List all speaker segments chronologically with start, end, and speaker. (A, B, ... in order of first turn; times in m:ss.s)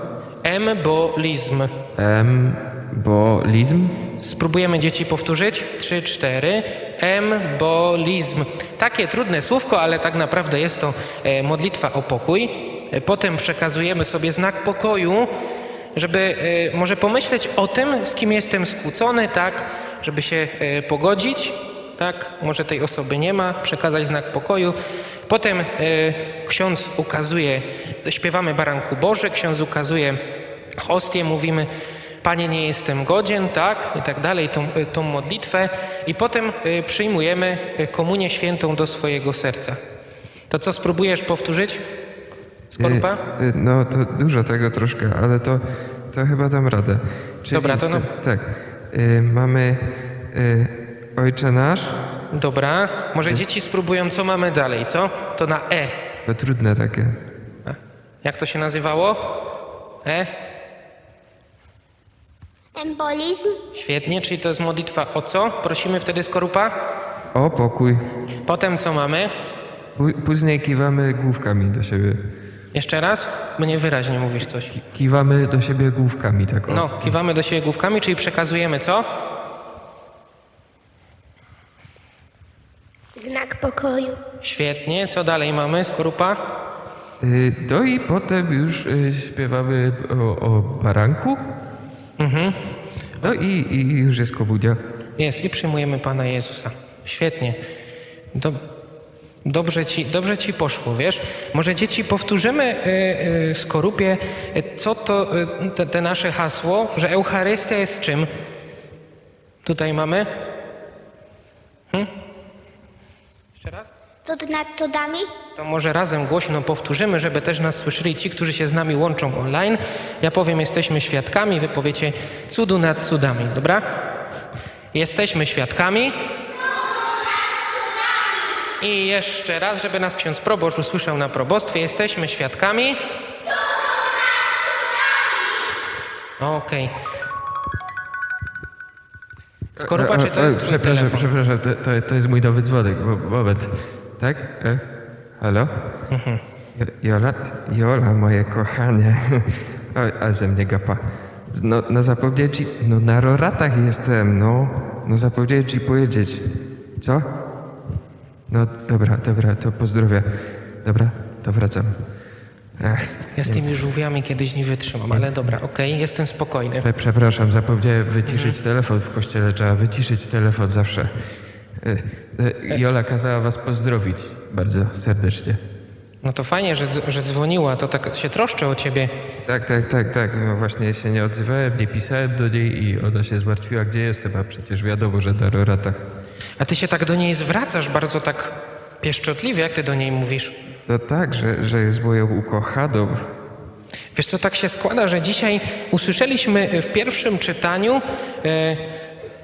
0:00.4-0:01.7 A
0:01.9-0:04.0 B
0:04.2-0:15.3 A
0:15.9-0:30.2 A
0:30.8-0:31.7 A
0:32.2-0:39.8 A
0:40.5-0:41.8 A
0:42.8-0:43.2 A
0:42.8-0:52.0 B
0:47.5-0:48.1 A
0:52.3-0:55.9 A
0:56.2-0:57.2 B
0:57.6-0:59.2 A
1:00.0-1:00.3 A
1:02.7-1:03.6 C
1:03.7-1:06.7 A
1:07.3-1:08.0 B
1:08.5-1:09.3 A
1:10.0-1:12.2 B
1:12.7-1:14.7 A
1:14.7-1:17.2 B
1:16.7-1:19.0 A
1:23.2-1:24.2 C
1:24.4-1:26.4 A
1:27.2-1:31.4 B
1:32.2-1:32.6 A
1:33.2-1:34.8 B
1:35.2-1:37.6 A
1:38.3-1:38.6 A
1:39.4-1:48.3 A
1:49.6-1:50.3 A
1:53.6-1:53.9 A
1:54.2-1:55.3 C
1:55.5-2:03.8 A
2:04.9-2:06.1 A
2:08.8-2:13.0 A
2:16.4-2:16.9 A
2:19.8-2:24.8 B
2:19.8-2:21.3 A
2:25.4-2:25.7 B
2:26.1-2:26.4 A
2:26.8-2:36.4 B
2:37.0-2:37.3 B
2:38.5-2:40.3 B
2:40.8-2:41.9 B
2:42.8-2:43.7 B
2:42.8-2:46.8 A
2:46.8-2:51.1 B
2:48.3-2:48.6 A
2:51.8-2:55.6 B
2:56.2-2:59.1 A
2:59.5-3:06.0 B
3:06.6-3:10.5 A
3:10.9-3:13.3 B
3:14.1-3:18.8 A